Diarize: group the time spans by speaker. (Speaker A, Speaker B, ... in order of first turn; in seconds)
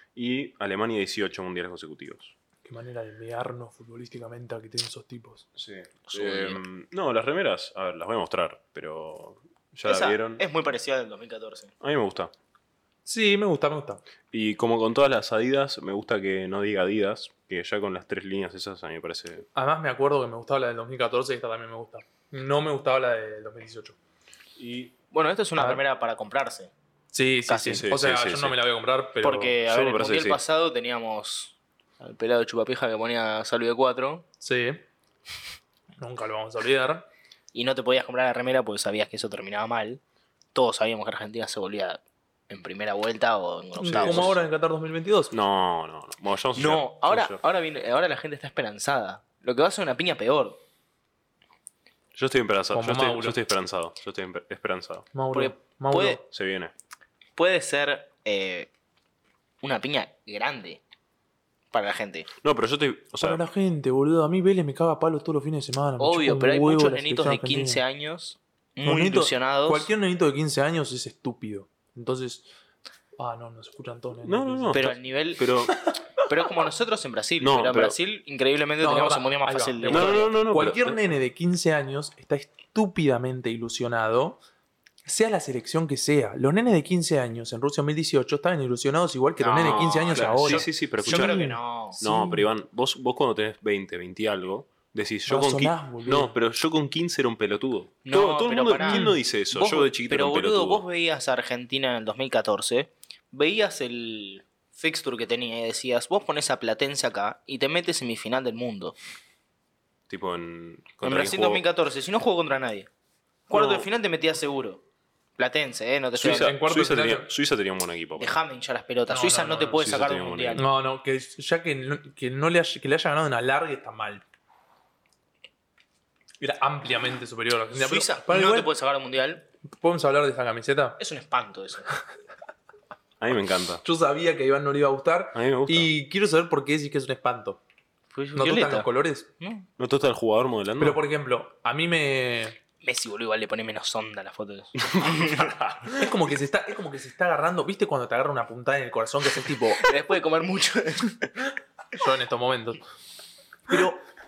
Speaker A: 0.1-2.3, 5.5-10.4, 11.8-12.3, 14.3-19.5, 24.6-24.9, 27.5-28.6, 29.6-30.4, 43.9-44.3, 45.3-47.4, 52.1-55.1, 56.3-56.7, 62.4-63.4, 74.2-75.8, 77.4-78.0, 79.9-81.0, 89.6-100.8, 110.1-111.6, 113.5-113.9, 116.2-118.4, 119.8-120.6, 133.2-133.8, 135.3-135.9, 139.8-141.0, 144.9-146.0
Speaker B: 2.6-5.5, 13.1-14.0, 19.5-23.9, 25.6-25.8, 27.1-29.6, 34.4-34.8, 36.0-37.0, 43.8-45.3, 52.7-53.4, 55.1-56.2, 63.2-67.8, 68.8-72.5, 73.2-74.9, 78.8-84.4, 85.0-92.5, 95.3-96.3, 98.9-99.2, 116.2-117.3, 119.1-119.8, 120.5-124.2, 126.4-128.7, 129.7-131.0, 133.8-137.6, 138.3-139.3, 140.8-142.6, 145.9-149.8, 151.9-152.8, 153.7-154.0
Speaker C: 6.1-6.6, 9.8-11.7, 25.1-26.7, 29.2-34.2, 37.5-40.0, 40.5-44.5, 46.5-50.6, 55.3-56.2, 57.4-58.7, 59.6-60.8, 61.7-62.3, 66.0-69.9, 74.7-75.5, 76.2-80.3, 89.4-92.0, 98.0-109.0, 111.0-112.9, 113.5-114.8, 115.4-116.5, 118.2-120.6, 127.7-129.4, 131.0-131.9, 138.1-138.9, 139.4-139.7, 142.8-145.6, 149.8-151.5